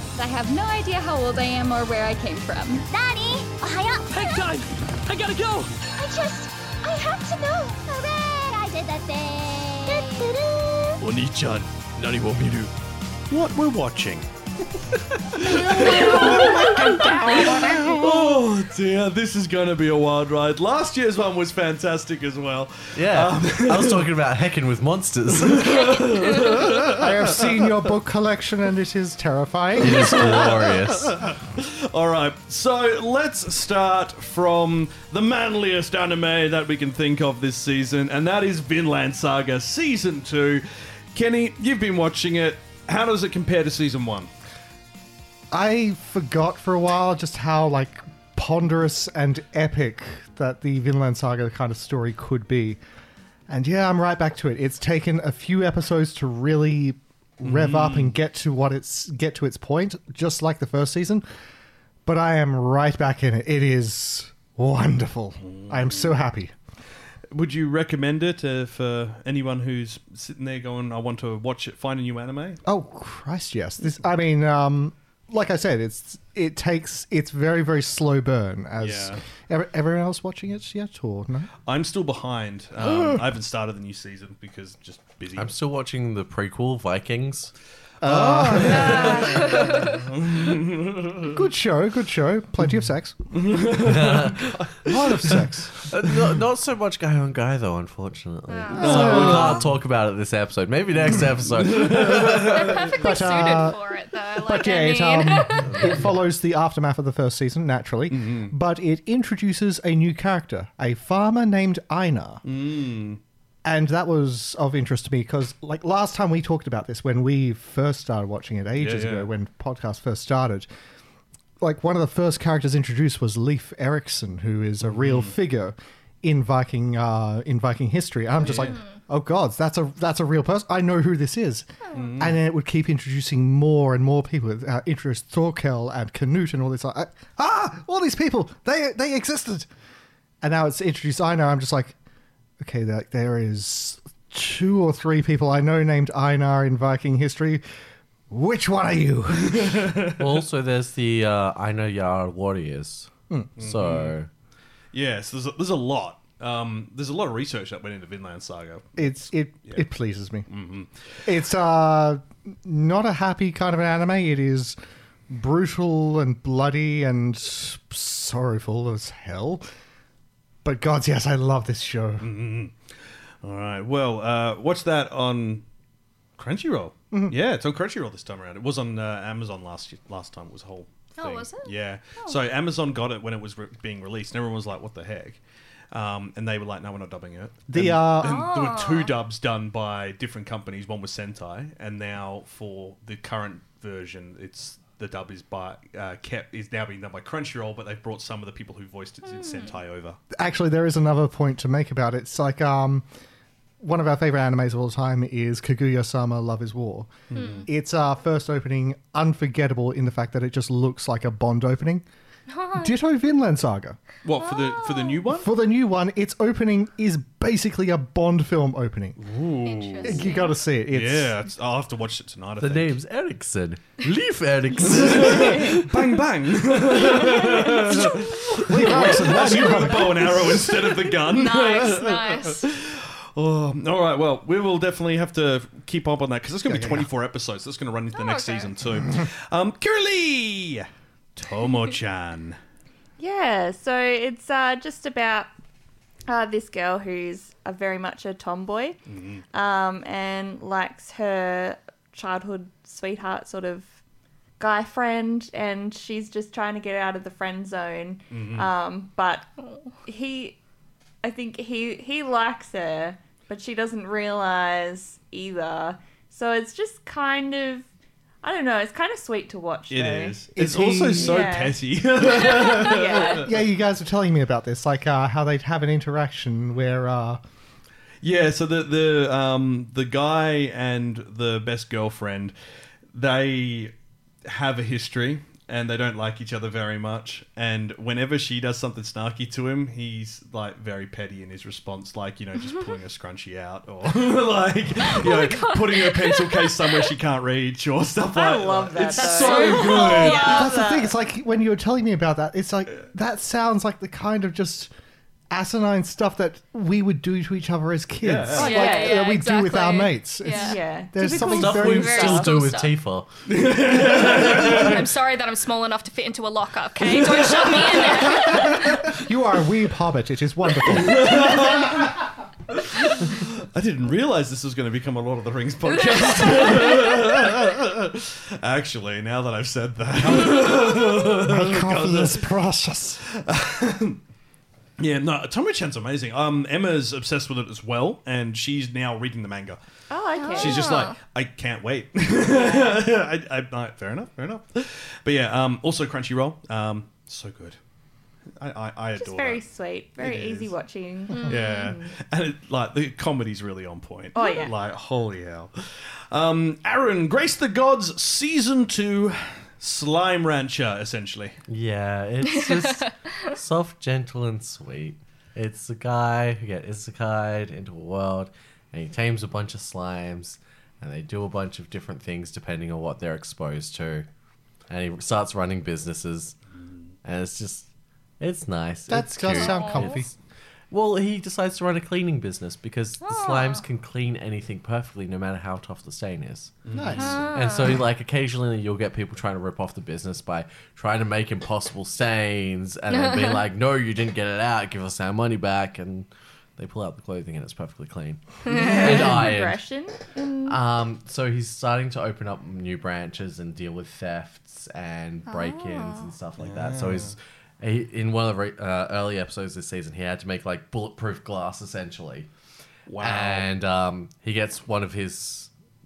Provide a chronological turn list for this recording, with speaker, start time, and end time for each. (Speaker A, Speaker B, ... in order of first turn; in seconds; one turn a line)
Speaker A: 0.1-2.8
Speaker B: 2.9-4.6
Speaker C: 4.2-4.6
Speaker C: 5.1-5.5
Speaker B: 5.8-11.0
Speaker C: 11.0-12.7
Speaker C: 13.3-14.3
Speaker C: 15.2-24.1
Speaker B: 15.4-17.9
Speaker A: 16.0-17.8
Speaker D: 22.9-26.0
Speaker C: 25.3-27.7
Speaker E: 26.2-26.6
Speaker F: 27.0-30.4
Speaker D: 29.8-31.2
Speaker C: 29.9-44.3
Speaker F: 45.5-52.8
Speaker F: 53.5-61.2
Speaker C: 57.4-58.2
Speaker F: 62.0-66.5
Speaker C: 65.4-66.2
Speaker C: 67.3-72.6
Speaker F: 72.6-81.5
Speaker C: 78.8-79.2
Speaker C: 81.6-85.5
Speaker F: 82.8-83.2
Speaker D: 85.3-87.5
Speaker F: 88.0-89.5
Speaker C: 88.0-91.4
Speaker E: 88.7-90.0
Speaker D: 88.7-89.9
Speaker F: 91.3-93.2
Speaker C: 93.3-95.4
Speaker D: 93.8-94.6
Speaker F: 94.8-95.9
Speaker D: 95.8-102.6
Speaker E: 98.5-99.3
Speaker F: 98.8-99.6
Speaker C: 98.8-99.7
Speaker C: 101.1-102.9
Speaker E: 102.5-105.9
Speaker F: 102.9-103.8
Speaker F: 104.3-112.4
Speaker C: 105.7-106.0
Speaker C: 108.1-108.5
Speaker C: 112.4-113.2
Speaker F: 113.6-120.7
Speaker C: 118.8-119.3
Speaker F: 121.6-139.7
Speaker C: 124.8-125.3
Speaker C: 128.4-128.8
Speaker C: 131.9-132.4
Speaker F: 140.4-141.9
Speaker F: 142.6-147.6
Speaker F: 148.3-149.9
Speaker C: 149.4-150.3
Speaker D: 150.2-154.3
Speaker C: 153.6-154.2
Speaker C: 154.9-159.8
Speaker F: 159.0-160.5
Speaker C: 160.5-160.9
Speaker F: 161.2-164.8
Speaker F: 165.3-169.7
Speaker F: 170.6-172.3
Speaker C: 172.2-172.8
Speaker C: 173.4-175.6
Speaker C: 176.4-185.4
Speaker F: 177.1-177.4
Speaker E: 181.2-181.7
Speaker C: 185.9-200.2
Speaker F: 187.7-188.4
Speaker E: 188.2-189.1
Speaker E: 199.3-199.8
Speaker F: 200.3-203.0
Speaker F: 203.8-212.0
Speaker C: 207.3-207.7
Speaker E: 207.3-207.7
Speaker E: 212.5-212.9
Speaker F: 212.7-214.0
Speaker C: 214.2-215.5
Speaker E: 214.4-215.2
Speaker F: 215.3-219.2
Speaker C: 219.2-220.2
Speaker E: 219.6-220.6
Speaker F: 220.0-221.4
Speaker C: 220.9-223.0
Speaker D: 222.6-226.1
Speaker C: 224.8-242.6
Speaker F: 228.6-230.6
Speaker E: 229.2-232.7
Speaker F: 236.7-237.1
Speaker E: 238.1-238.7
Speaker A: 243.2-245.5
Speaker A: 246.3-249.0
Speaker C: 249.1-249.4
Speaker A: 249.5-253.9
Speaker A: 254.6-259.5
Speaker C: 258.3-258.7
Speaker E: 259.6-259.9
Speaker A: 260.0-260.6
Speaker A: 261.2-267.9
Speaker A: 268.4-270.4
Speaker C: 269.9-273.6
Speaker F: 270.6-271.5
Speaker A: 271.2-273.4
Speaker F: 273.2-277.4
Speaker C: 278.2-282.5
Speaker C: 283.1-283.9
Speaker C: 284.4-300.7
Speaker E: 295.0-297.1
Speaker A: 298.3-301.1
Speaker E: 299.2-300.4
Speaker F: 299.9-304.9
Speaker F: 305.5-312.3
Speaker C: 308.2-308.8
Speaker A: 308.6-309.3
Speaker E: 308.6-310.8
Speaker A: 310.5-312.6
Speaker D: 311.3-313.3
Speaker E: 311.7-312.9
Speaker C: 313.4-315.1
Speaker E: 314.1-319.2
Speaker C: 317.0-318.9
Speaker F: 319.2-321.5
Speaker C: 320.9-332.5
Speaker E: 325.9-327.5
Speaker F: 330.3-333.2
Speaker C: 333.2-334.2
Speaker C: 335.0-339.8
Speaker A: 340.1-340.9
Speaker E: 340.4-341.1
Speaker C: 340.5-347.8
Speaker A: 342.5-343.0
Speaker C: 348.6-349.6
Speaker A: 349.2-352.1
Speaker C: 350.2-350.7
Speaker E: 351.3-351.6
Speaker C: 351.4-361.6
Speaker A: 354.3-354.7
Speaker D: 361.7-374.3
Speaker E: 362.4-363.6
Speaker D: 374.9-376.6
Speaker D: 377.2-377.9
Speaker D: 378.4-380.3
Speaker F: 379.1-380.3
Speaker E: 379.5-380.2
Speaker D: 380.9-399.8
Speaker E: 383.2-383.8
Speaker C: 386.9-387.5
Speaker F: 386.9-387.4
Speaker E: 387.1-388.0
Speaker E: 393.1-393.6
Speaker A: 398.6-400.8
Speaker D: 400.7-412.5
Speaker E: 405.5-406.3
Speaker C: 406.6-407.4
Speaker C: 413.1-413.7
Speaker D: 413.2-415.7